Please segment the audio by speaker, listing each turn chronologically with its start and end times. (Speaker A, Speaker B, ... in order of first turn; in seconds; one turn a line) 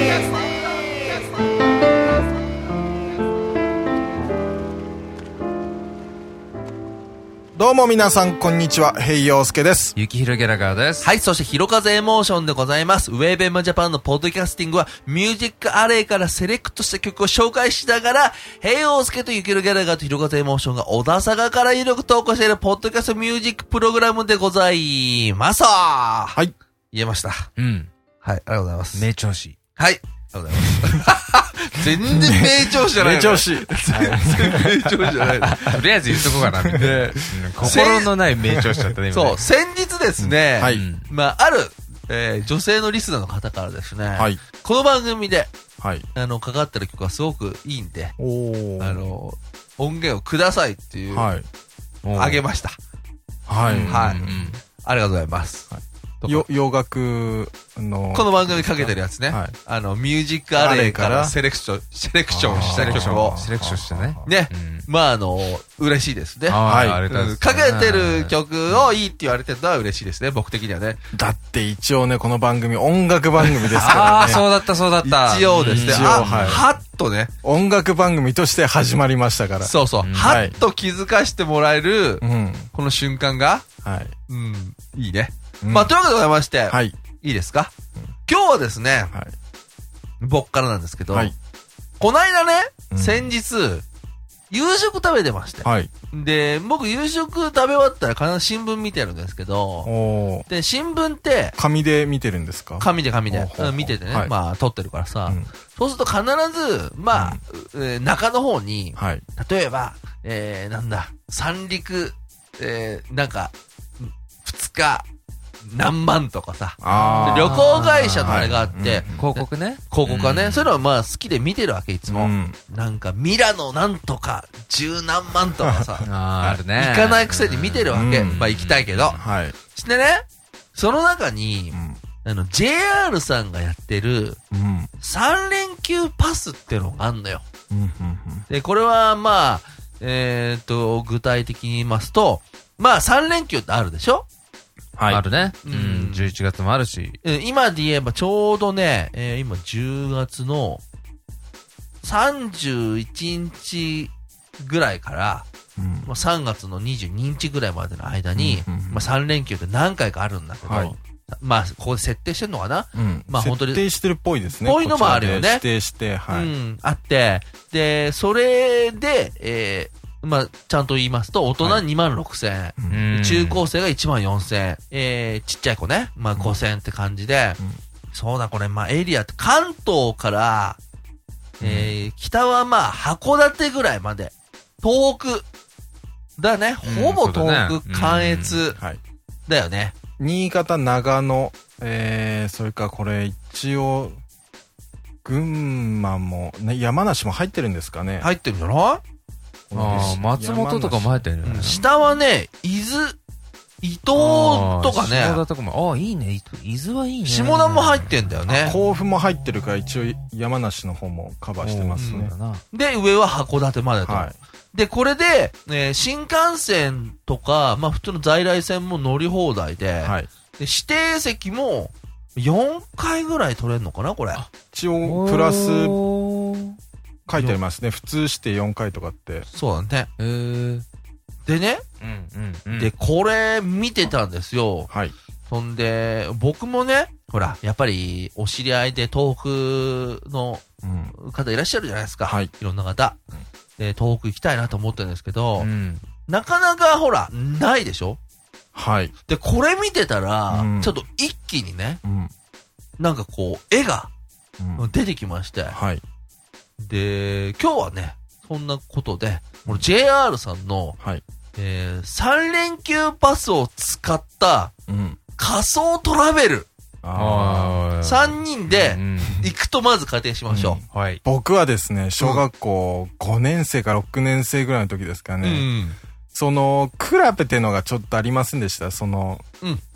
Speaker A: 7.6-9.9
Speaker B: 10.0-11.1
Speaker C: 11.0-26.4
Speaker C: 26.9-27.5
Speaker B: 27.6-27.9
Speaker C: 28.2-29.1
Speaker B: 28.9-29.6
Speaker C: 29.8-35.8
Speaker A: 32.1-35.2
Speaker B: 35.5-39.4
Speaker A: 36.1-37.8
Speaker C: 36.8-38.2
Speaker C: 39.1-45.5
Speaker A: 40.2-40.9
Speaker B: 40.6-41.1
Speaker A: 45.8-46.0
Speaker C: 46.1-48.1
Speaker A: 48.2-49.0
Speaker C: 48.8-51.4
Speaker A: 51.1-51.5
Speaker B: 52.0-52.4
Speaker C: 52.1-52.8
Speaker A: 53.5-54.4
Speaker C: 53.7-55.7
Speaker B: 53.7-54.6
Speaker A: 55.7-59.5
Speaker C: 56.2-56.5
Speaker C: 58.1-63.4
Speaker A: 60.5-61.3
Speaker A: 62.3-64.3
Speaker B: 62.5-64.9
Speaker C: 64.2-71.0
Speaker B: 66.5-68.3
Speaker A: 66.7-67.0
Speaker A: 71.1-74.5
Speaker C: 73.4-74.5
Speaker B: 73.7-76.7
Speaker C: 75.0-77.3
Speaker A: 75.7-76.6
Speaker A: 77.4-80.5
Speaker C: 79.6-83.7
Speaker B: 80.0-80.5
Speaker A: 82.2-82.7
Speaker A: 83.8-84.1
Speaker C: 84.3-87.7
Speaker A: 85.6-86.0
Speaker A: 86.7-87.0
Speaker C: 88.3-89.1
Speaker C: 90.2-91.3
Speaker C: 92.0-93.8
Speaker A: 92.9-93.3
Speaker C: 94.5-99.9
Speaker A: 95.6-95.9
Speaker A: 99.8-100.5
Speaker C: 100.5-101.6
Speaker A: 101.6-104.3
Speaker C: 102.8-115.1
Speaker A: 107.1-107.4
Speaker A: 109.0-109.2
Speaker C: 115.7-126.1
Speaker A: 116.8-119.3
Speaker B: 117.0-118.5
Speaker B: 119.2-120.7
Speaker A: 122.1-122.6
Speaker B: 126.0-129.2
Speaker C: 126.7-134.4
Speaker A: 127.9-128.4
Speaker A: 129.1-129.6
Speaker A: 131.7-132.0
Speaker A: 134.5-134.9
Speaker C: 135.0-137.4
Speaker A: 137.7-138.5
Speaker C: 138.5-144.3
Speaker A: 145.0-145.2
Speaker B: 145.1-147.2
Speaker C: 145.6-146.3
Speaker C: 147.2-150.8
Speaker C: 152.0-155.5
Speaker A: 155.8-156.1
Speaker C: 156.1-163.9
Speaker A: 158.3-159.1
Speaker A: 160.7-161.0
Speaker A: 162.9-166.5
Speaker C: 164.5-165.7
Speaker C: 166.3-177.6
Speaker A: 172.8-173.1
Speaker B: 172.9-173.6
Speaker C: 178.1-180.8
Speaker A: 181.6-181.9
Speaker C: 181.6-185.5
Speaker C: 186.4-188.8
Speaker B: 186.8-188.6
Speaker C: 189.5-189.9
Speaker A: 190.2-194.2
Speaker A: 195.2-198.3
Speaker C: 198.2-199.0
Speaker A: 199.7-201.2
Speaker B: 199.7-201.8
Speaker C: 199.9-200.2
Speaker C: 201.4-203.2
Speaker C: 203.8-205.4
Speaker B: 204.2-208.9
Speaker C: 207.3-208.8
Speaker A: 208.5-212.3
Speaker B: 209.9-210.2
Speaker B: 211.6-212.6
Speaker C: 212.0-224.5
Speaker A: 214.1-214.4
Speaker A: 220.0-220.3
Speaker A: 224.7-226.0
Speaker B: 225.1-226.8
Speaker A: 227.3-229.5
Speaker C: 227.4-227.6
Speaker C: 229.5-230.1
Speaker B: 230.2-230.8
Speaker C: 231.5-231.8
Speaker B: 232.0-232.9
Speaker C: 232.8-234.9
Speaker A: 234.9-235.2
Speaker C: 235.5-243.2
Speaker A: 240.8-241.1
Speaker A: 242.2-242.5
Speaker C: 243.8-245.7
Speaker B: 245.6-246.0
Speaker C: 246.3-248.2
Speaker A: 248.8-249.1
Speaker C: 249.3-252.0
Speaker A: 250.5-250.9
Speaker A: 252.1-252.3
Speaker C: 253.0-254.1
Speaker A: 254.6-254.9
Speaker C: 254.8-255.8
Speaker A: 255.7-256.0
Speaker C: 256.8-261.0
Speaker C: 261.6-264.7
Speaker A: 264.9-265.2
Speaker C: 265.4-266.7
Speaker A: 267.0-267.8
Speaker B: 267.1-269.4
Speaker C: 268.0-270.8
Speaker A: 270.5-275.7
Speaker B: 270.9-271.2
Speaker C: 272.2-272.4
Speaker C: 275.4-276.0
Speaker A: 276.3-279.4